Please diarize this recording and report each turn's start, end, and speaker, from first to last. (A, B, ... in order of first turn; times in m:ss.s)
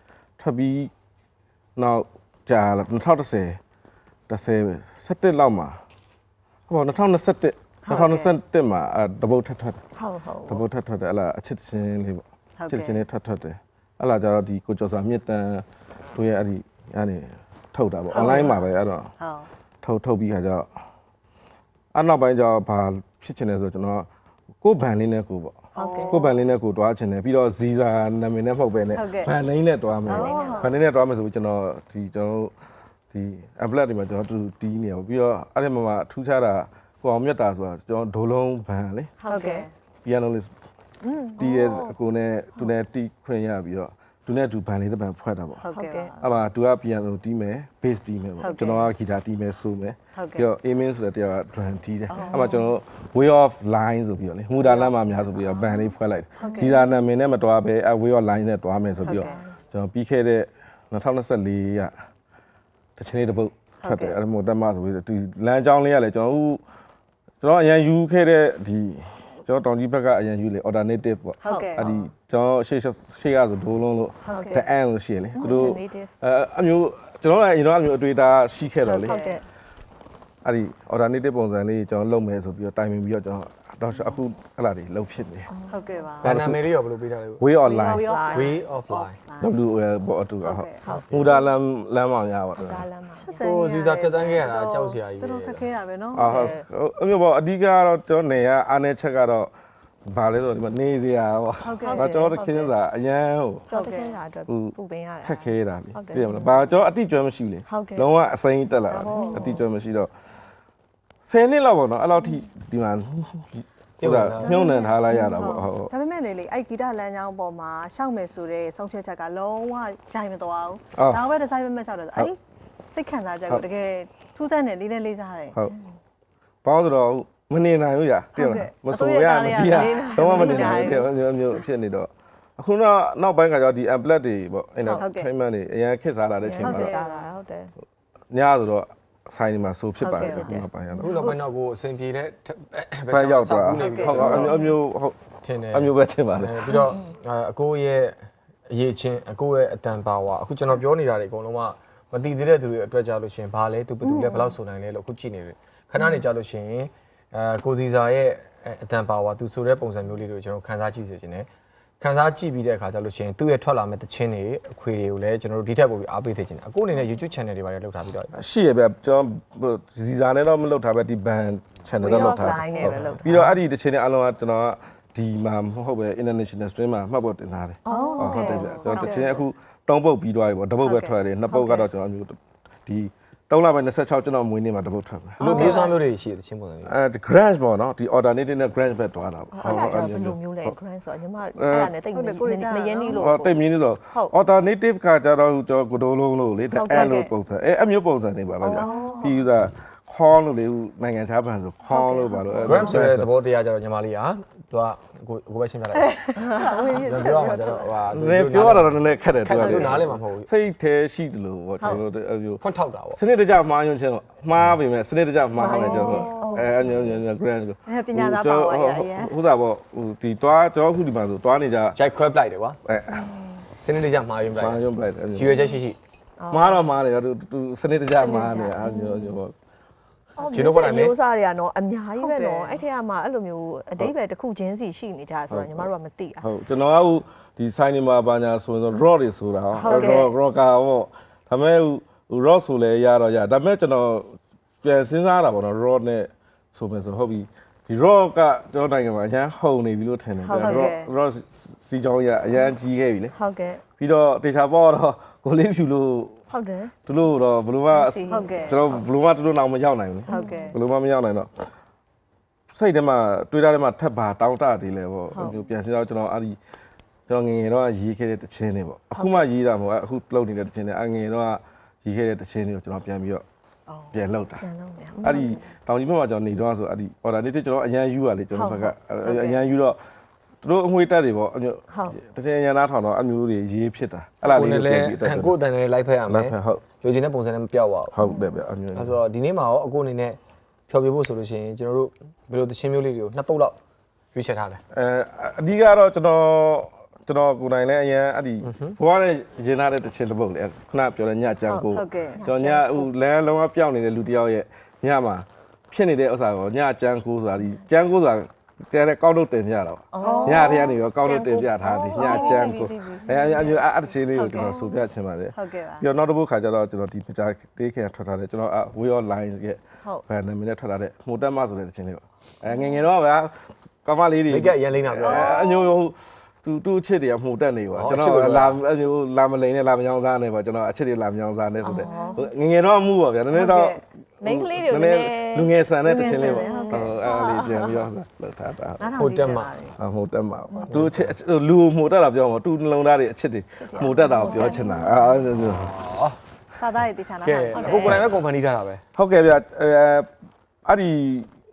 0:00.4-0:00.9 A
0:01.8-0:03.6 A
0:04.3-0:05.8 A
0:06.7-0:09.8 A
0:07.8-0:08.4 B
0:10.0-0:10.6 B
0:10.4-0:19.1 A
0:12.6-0:13.0 C
0:18.1-0:18.6 C
0:19.2-0:19.5 C
0:19.8-0:20.7 A
0:21.9-0:24.1 A
0:24.6-0:32.5 A
0:25.7-0:26.4 C
0:25.8-0:26.2 B
0:28.9-0:29.3 C
0:30.1-0:30.7 B
0:30.1-0:30.7 C
0:33.1-0:39.1 A
0:39.2-0:39.6 B
0:39.3-0:39.7 C
0:40.0-0:40.5 A
0:41.0-0:41.6 C
0:41.4-0:45.7 A
0:41.5-0:41.9 B
0:45.6-0:46.3 C
0:45.7-0:46.1 B
0:46.2-1:01.9 A
0:48.4-0:48.9 C
0:50.2-0:50.4 C
0:52.1-0:52.5 C
0:52.2-0:52.7 B
0:54.6-0:56.8 C
0:56.4-0:56.8 B
0:59.0-0:59.4 C
0:59.0-0:59.6 B
1:03.0-1:06.6 A
1:03.8-1:04.2 C
1:07.4-1:19.2 A
1:11.4-1:11.9 C
1:11.4-1:11.9 B
1:14.2-1:14.6 C
1:14.3-1:14.6 B
1:15.4-1:16.1 B
1:18.8-1:19.4 C
1:19.0-1:19.4 B
1:20.4-1:25.5 A
1:25.5-1:26.1 B
1:25.7-1:26.4 C
1:26.2-1:27.4 D
1:26.2-1:26.7 A
1:27.4-1:28.1 A
1:27.6-1:29.6 C
1:27.8-1:28.6 B
1:28.2-1:29.2 D
1:29.4-1:32.9 A
1:30.4-1:30.8 C
1:30.8-1:31.5 B
1:30.9-1:31.3 D
1:32.6-1:33.5 B
1:33.2-1:36.3 C
1:33.3-1:35.7 D
1:36.1-1:39.5 A
1:36.2-1:36.6 B
1:40.1-1:43.7 A
1:41.6-1:42.2 C
1:41.8-1:42.7 B
1:43.7-1:44.2 C
1:43.7-1:46.6 B
1:44.5-1:50.1 A
1:47.7-1:48.0 B
1:48.9-1:49.6 C
1:49.2-1:49.6 B
1:51.2-1:55.9 A
1:54.0-1:54.6 D
1:54.4-2:02.4 C
1:55.1-1:55.4 B
2:01.0-2:01.2 A
2:02.9-2:05.6 C
2:06.6-2:17.0 A
2:08.3-2:11.0 C
2:09.7-2:11.1 B
2:15.0-2:15.3 C
2:16.4-2:17.7 B
2:16.6-2:17.3 C
2:18.3-2:21.4 A
2:20.0-2:20.6 C
2:20.2-2:21.2 B
2:21.0-2:24.6 D
2:23.1-2:26.9 A
2:23.8-2:24.7 C
2:25.4-2:41.5 D
2:34.0-2:34.5 C
2:42.0-2:48.3 D
2:48.3-3:05.9 A
2:52.0-2:52.9 C
2:52.0-2:53.3 B
2:52.9-2:53.5 D
2:57.8-2:59.3 B
2:57.9-2:59.4 C
3:00.8-3:01.1 C
3:01.5-3:01.9 B
3:05.4-3:06.9 D
3:05.4-3:05.9 B
3:06.8-3:10.7 A
3:09.5-3:13.3 B
3:09.6-3:10.2 C
3:11.6-3:11.9 A
3:12.1-3:13.6 C
3:13.1-3:23.3 A
3:16.7-3:17.2 B
3:16.9-3:17.3 C
3:18.6-3:19.4 B
3:18.6-3:19.3 C
3:21.9-3:23.0 B
3:22.6-3:26.2 D
3:26.0-3:27.9 C
3:26.4-3:27.2 B
3:27.0-3:30.5 D
3:28.1-3:42.0 A
3:29.6-3:30.0 C
3:32.6-3:33.2 D
3:35.6-3:37.2 B
3:35.7-3:36.6 C
3:37.9-3:39.4 C
3:41.9-3:42.8 D
3:42.8-3:43.3 A
3:43.1-3:43.6 B
3:43.8-3:46.0 D
3:44.5-3:45.8 A
3:46.4-3:46.8 B
3:46.5-3:49.5 A
3:48.1-3:49.4 B
3:50.4-3:56.5 B
3:50.5-3:51.2 D
3:52.2-3:52.8 C
3:55.5-4:13.3 A
3:59.8-4:00.3 C
3:59.9-4:00.3 B
4:10.4-4:10.9 B
4:10.6-4:11.1 C
4:13.3-4:13.8 B
4:14.0-4:16.4 A
4:16.5-4:16.9 B
4:17.0-4:21.7 A
4:17.9-4:18.8 B
4:18.3-4:18.8 C
4:20.3-4:20.8 B
4:20.3-4:20.8 C
4:22.7-4:26.6 A
4:25.3-4:25.6 B
4:27.3-4:33.4 A
4:29.1-4:29.4 B
4:33.9-4:34.1 C
4:34.1-4:34.6 A
4:34.6-4:35.5 B
4:35.2-4:40.0 A
4:35.3-4:35.6 C
4:38.5-4:38.9 B
4:39.2-4:39.6 C
4:40.6-4:45.6 A
4:41.9-4:42.2 B
4:44.4-4:48.2 D
4:46.3-4:46.8 A
4:48.1-4:49.2 A
4:48.2-4:48.5 B
4:48.9-4:53.8 D
4:54.3-4:54.8 D
4:54.9-5:39.2 A
4:58.6-4:59.0 D
5:01.7-5:03.1 B
5:01.9-5:02.4 C
5:10.1-5:13.8 B
5:10.2-5:10.9 C
5:12.1-5:13.7 C
5:14.3-5:14.7 C
5:14.5-5:15.0 B
5:15.5-5:16.0 C
5:24.5-5:25.6 D
5:25.2-5:25.9 B
5:27.9-5:28.8 D
5:31.8-5:32.4 B
5:32.0-5:32.3 C
5:33.5-5:34.0 C
5:34.4-5:38.1 B
5:36.0-5:37.2 C
5:39.0-5:40.0 C
5:39.2-5:39.7 D
5:40.0-5:46.0 A
5:40.9-5:41.3 D
5:43.8-5:45.5 B
5:45.8-5:46.4 D
5:46.7-5:48.2 C
5:47.4-5:49.0 D
5:47.7-5:48.3 B
5:49.1-5:50.3 A
5:50.8-5:51.5 A